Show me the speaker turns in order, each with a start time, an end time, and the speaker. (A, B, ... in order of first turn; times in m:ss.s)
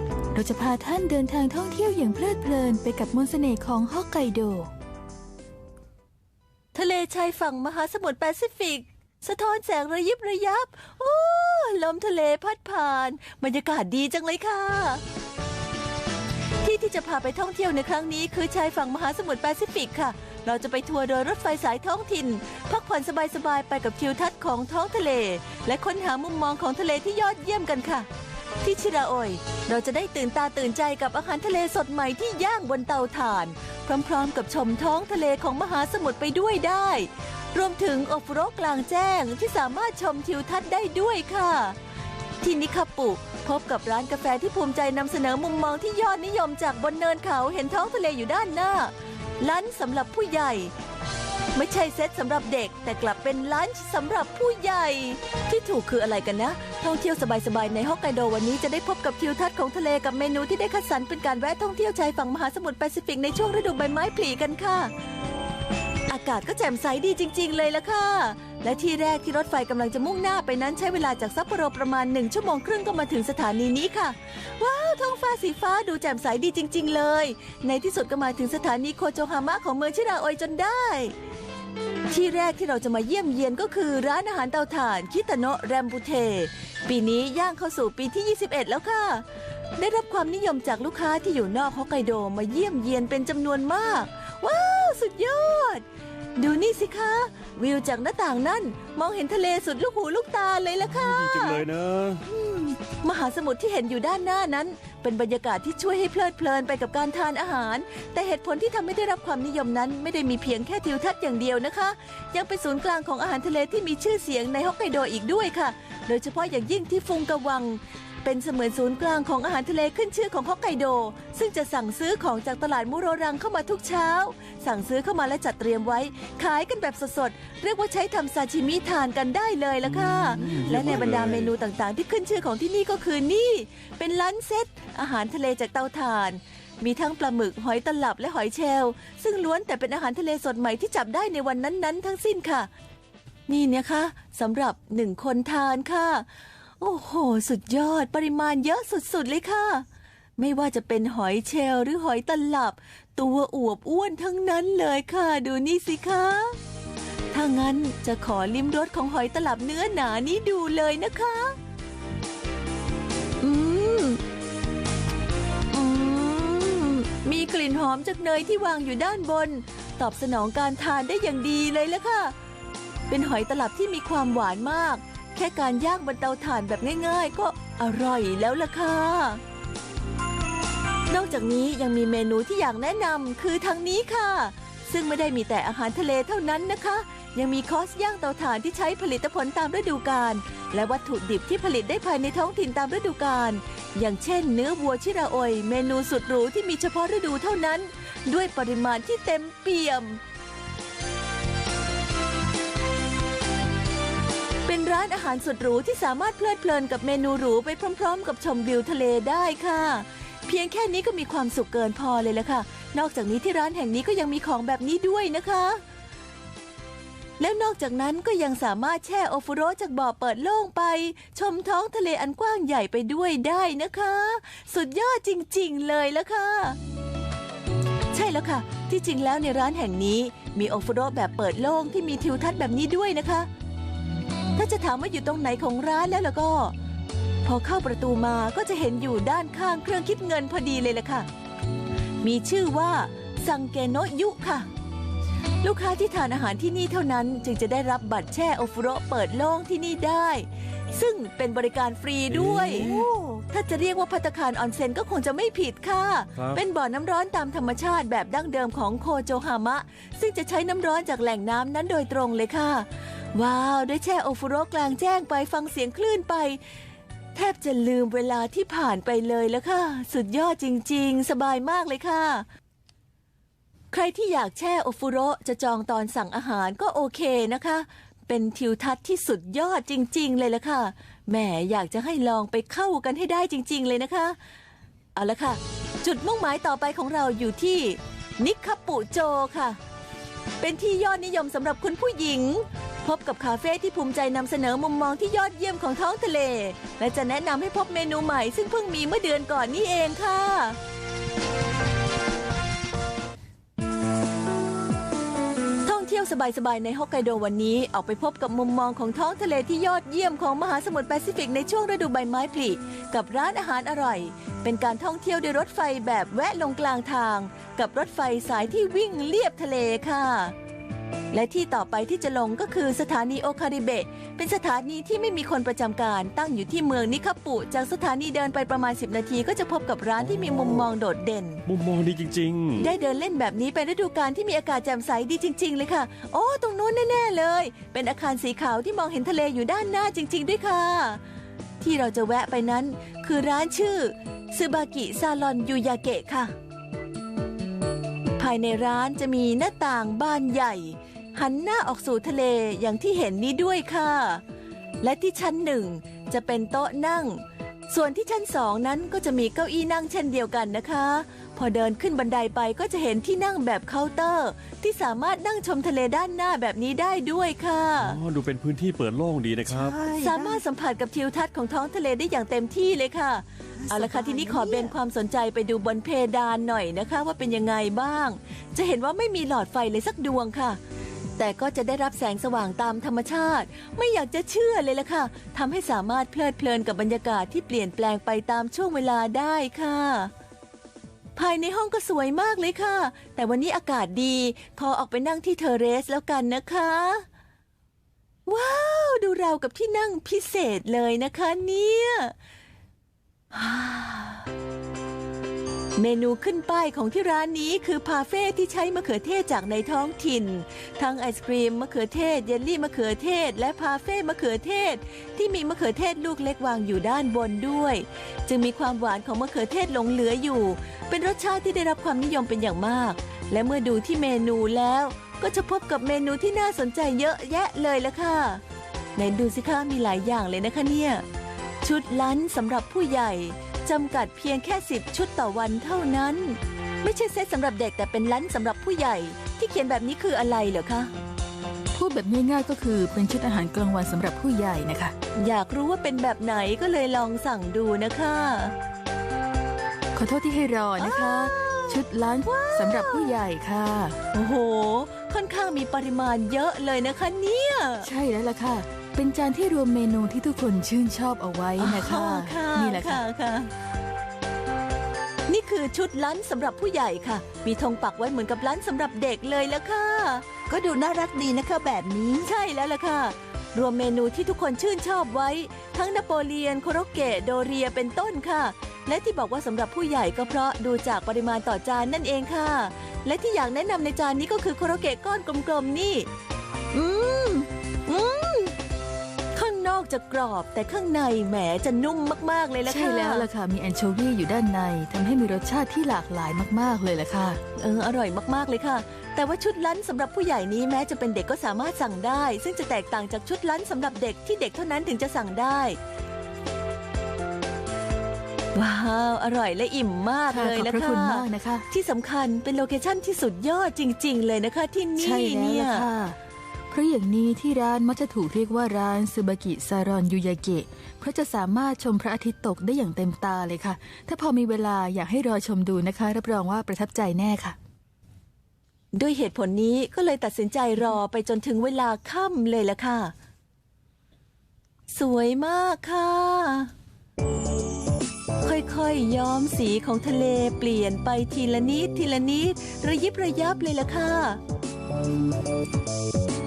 0:00.3-0:04.7 A
0:06.7-0:15.0 B
0:16.6-0:28.1 B
0:28.6-0:41.8 B
0:42.4-0:50.7 B
0:51.5-1:04.9 B
1:06.1-1:21.1 B
1:22.1-1:29.2 B
1:29.8-1:35.8 B
1:36.4-1:41.6 B
1:40.8-1:42.2 C
1:42.2-2:22.7 B
2:09.8-2:11.5 C
2:23.5-2:26.3 B
2:26.8-2:29.8 B
2:30.4-2:36.6 B
2:37.3-2:41.6 B
2:43.4-2:44.2 B
2:45.7-2:52.3 B
2:53.1-2:59.4 B
3:01.1-3:20.2 B
3:24.6-3:35.8 B
3:37.4-3:46.8 B
3:48.1-3:53.5 B
3:54.6-3:56.7 B
3:57.4-4:01.3 B
4:02.2-4:04.7 B
4:05.6-4:12.9 B
4:12.3-4:13.0 C
4:12.8-4:13.4 D
4:13.5-4:26.6 B
4:16.4-4:16.6 C
4:27.3-4:32.4 B
4:33.9-4:44.4 B
4:45.2-4:49.8 B
4:50.6-5:00.8 B
5:05.8-5:20.5 B
5:21.3-5:31.6 B
5:30.2-5:30.9 C
5:31.6-5:32.9 C
5:32.8-5:41.2 B
5:41.8-5:46.5 B
5:48.4-5:54.4 B
5:55.0-6:08.2 B
6:08.0-6:10.0 C
6:09.7-6:10.6 D
6:10.2-6:20.8 B
6:13.9-6:14.9 D
6:21.4-6:30.3 B
6:31.4-6:37.2 B
6:38.5-6:42.3 B
6:43.5-6:44.4 B
6:46.0-7:08.6 B
7:09.2-7:11.2 B
7:11.8-7:21.1 B
7:21.9-7:25.1 A
7:25.4-7:28.7 B
7:30.1-7:34.2 A
7:31.0-7:33.3 B
7:34.3-7:38.1 B
7:38.0-7:43.2 A
7:41.8-7:43.7 B
7:45.5-7:50.5 B
7:50.7-7:52.5 D
7:52.4-8:06.3 B
8:06.9-8:08.8 B
8:09.5-8:13.5 B
8:12.9-8:17.6 A
8:17.8-8:26.0 B
8:28.7-8:36.0 B
8:30.5-8:31.9 A
8:35.2-8:36.4 A
8:36.9-8:47.8 A
8:49.1-8:53.3 B
8:55.1-8:56.9 B
8:58.6-9:04.6 B